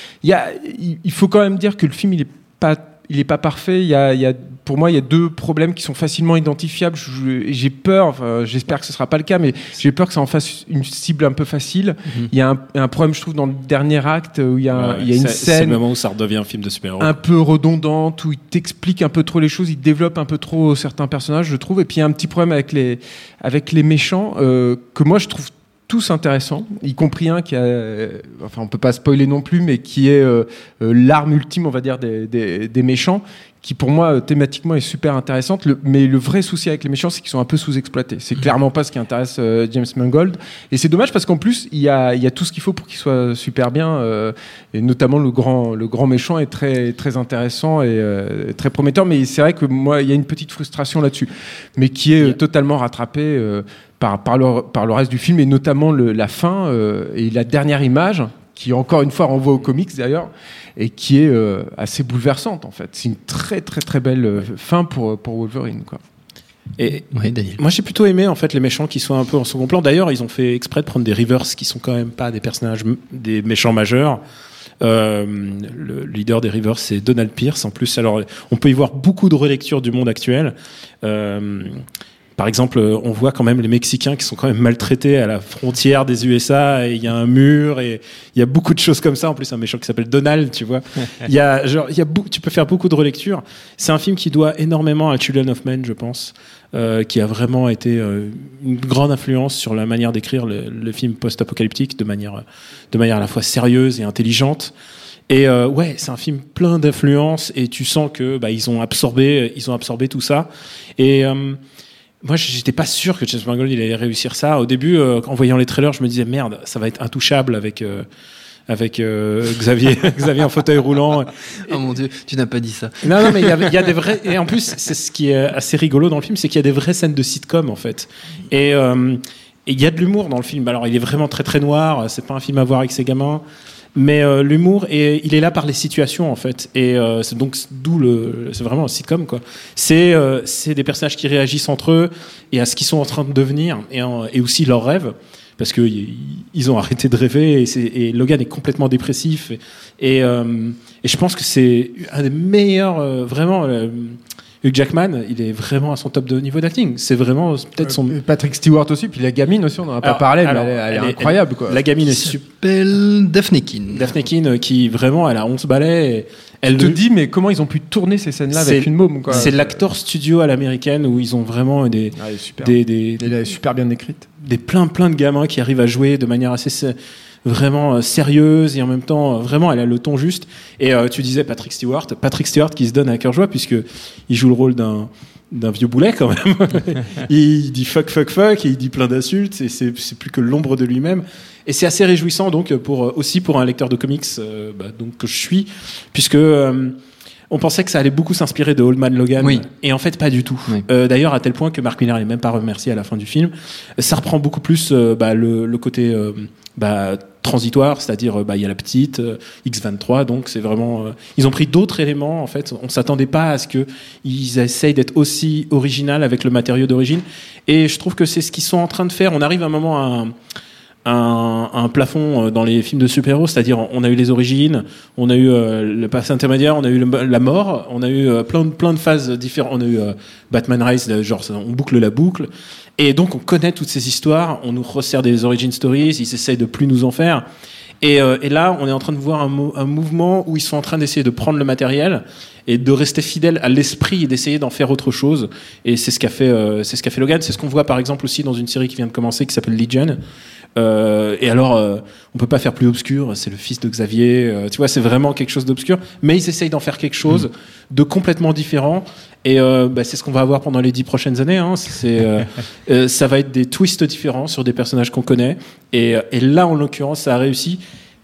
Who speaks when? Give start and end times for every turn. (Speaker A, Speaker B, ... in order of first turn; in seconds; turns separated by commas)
Speaker A: 0.2-15.8, Speaker B: 14.7-17.1, Speaker A: 17.0-66.0, Speaker B: 66.8-74.2, Speaker C: 67.1-67.6, Speaker B: 74.8-81.8, Speaker B: 82.4-104.7, Speaker B: 105.3-111.6, Speaker B: 112.2-118.0, Speaker B: 118.7-121.7, Speaker C: 121.7-123.6, Speaker B: 123.0-133.4, Speaker B: 134.0-158.2, Speaker A: 157.8-161.8, Speaker B: 160.0-162.4, Speaker C: 162.0-164.1, Speaker B: 163.9-167.0, Speaker A: 166.7-169.8, Speaker B: 168.5-173.3, Speaker A: 172.1-174.3, Speaker B: 174.4-196.9, Speaker B: 197.5-220.3, Speaker B: 221.1-237.4, Speaker B: 238.0-250.2, Speaker B: 250.8-267.8